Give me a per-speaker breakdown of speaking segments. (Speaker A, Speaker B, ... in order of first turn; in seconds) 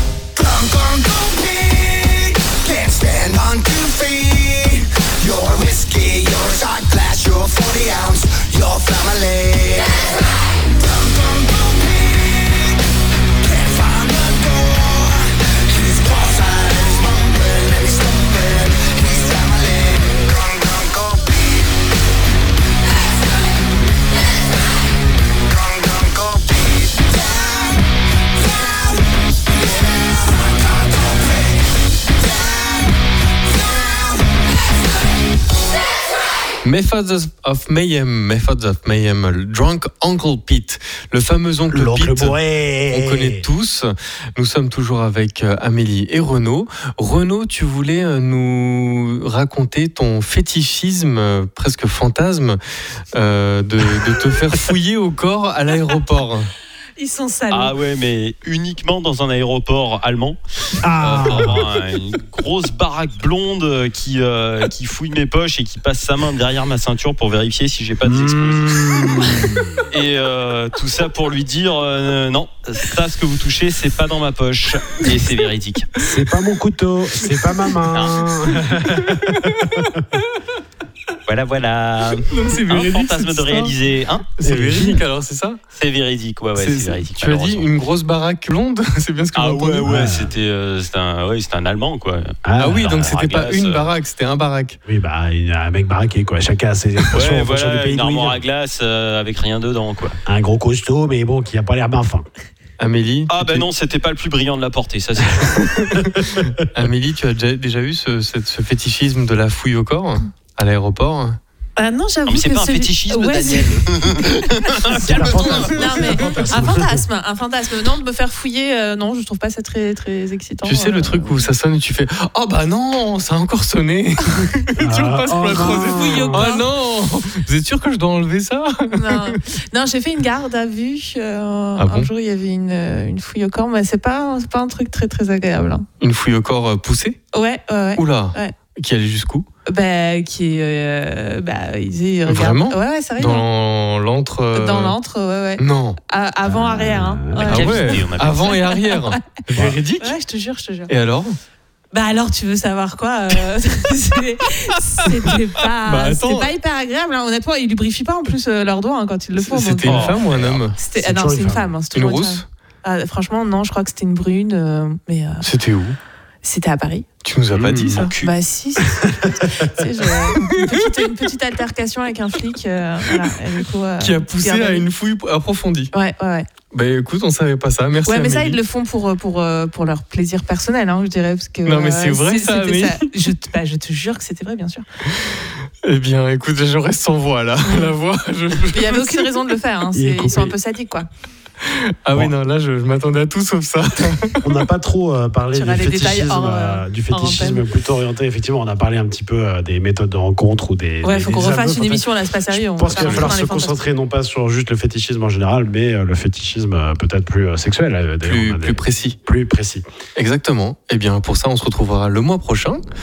Speaker A: 0.4-12.4, 13.4-21.7, 25.4-27.7, 29.5-31.5
Speaker B: 36.6-42.4, 42.9-52.6, 53.1-56.5, 78.0-80.3, 82.3-83.8, 84.4-85.6, 86.6-90.2, 92.6-94.8, 102.8-103.7, 106.0-111.4, 120.6-129.4, 131.8-132.1, 136.0-137.2, 138.0-139.5, 142.3-145.0, 145.6-146.0, 147.5-150.2, 150.9-151.4, 155.8-156.5, 159.4-160.8, 161.9-162.4, 165.4-166.0, 167.2-168.1, 174.0-175.9, 176.7-178.6, 181.7-183.3, 185.2-189.6, 191.6-194.6, 202.9-203.4, 208.2-209.2, 210.2-212.8
Speaker C: 41.7-43.5, 60.8-61.7, 68.0-69.8, 76.0-79.8, 84.4-85.0, 89.8-90.3, 92.4-93.0, 94.9-98.4, 100.3-102.3, 106.0-106.6, 114.9-117.0, 124.8-126.6, 146.4-147.7, 161.0-161.7, 167.6-168.1, 189.9-190.5, 194.4-209.8
Speaker D: 57.0-57.7, 111.8-121.5, 125.6-126.7, 128.9-135.9, 137.3-138.5, 139.7-143.5, 144.5-149.2, 150.0-150.9, 151.9-160.2, 160.8-165.5, 166.4-167.1, 168.2-174.9, 175.9-176.5, 178.1-184.8, 187.6-187.9, 188.7-191.1, 195.6-197.7, 201.0-203.8
Speaker E: 57.5-60.4, 61.0-69.0, 69.9-75.9, 77.9-78.2, 81.3-84.3, 85.8-87.7, 89.3-93.9, 97.1-100.2, 103.3-105.9, 112.3-116.4, 147.4-148.8, 159.8-160.6, 167.6-168.3